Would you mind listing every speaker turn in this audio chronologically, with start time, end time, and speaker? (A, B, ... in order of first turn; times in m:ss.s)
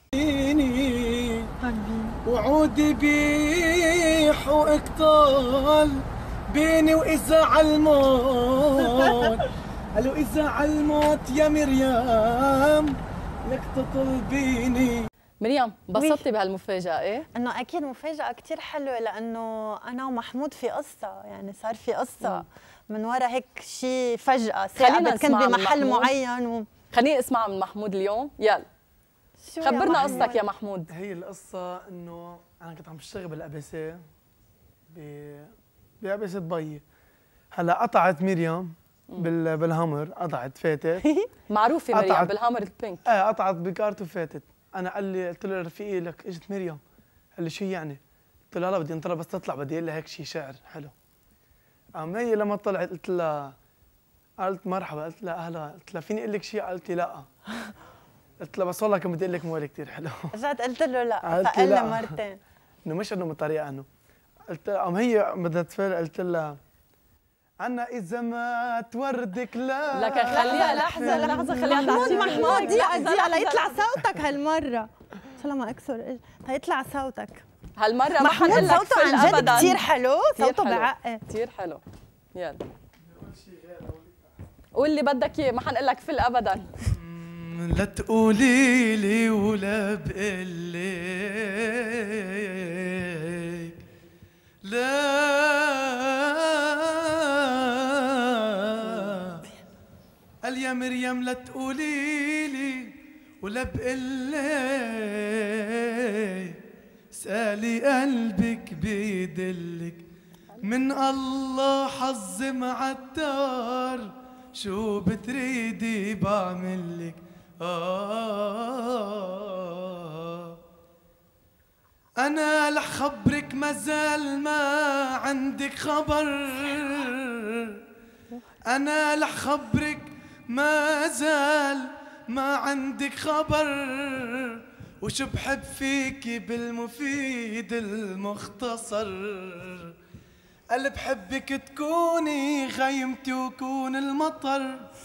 0:00.1-0:01.5 A
0:01.6-0:02.2 B
0:02.2-0:15.1 A
0:09.0-0:09.3 B
0:15.4-0:17.3 C
0:16.0-0:16.2 B
0:17.3-0:26.7 B
0:24.8-0:26.1 C
0:26.9-0:28.7 C
0:29.4-0:30.4 B
0:29.6-0:30.9 C
0:29.7-0:30.4 A
0:30.9-0:34.0 A
0:34.9-0:36.8 A
0:37.5-0:41.0 A
0:41.0-0:41.3 B
0:41.5-0:43.0 C
0:41.9-0:42.3 A
0:43.1-0:46.8 A
0:47.4-0:48.0 A
0:48.5-0:50.9 A
0:52.0-0:53.5 A
0:54.4-0:57.3 A
0:58.4-1:00.3 A
1:00.3-1:02.4 B
1:01.2-1:02.2 A
1:02.8-1:03.9 A
1:04.5-1:06.6 A
1:07.6-1:12.7 A
1:09.9-1:13.9 C
1:10.3-1:17.4 B
1:17.8-1:19.8 C
1:18.2-1:21.2 B
1:18.5-1:18.8 A
1:20.4-1:21.8 C
1:22.3-1:22.6 C
1:23.1-1:24.2 A
1:24.7-1:26.7 C
1:26.9-1:33.8 A
1:34.6-1:39.4 A
1:40.4-1:46.6 A
1:47.1-1:50.0 A
1:50.6-2:00.6 A
2:02.2-2:07.8 A
2:08.7-2:19.9 A
2:20.7-2:24.9 A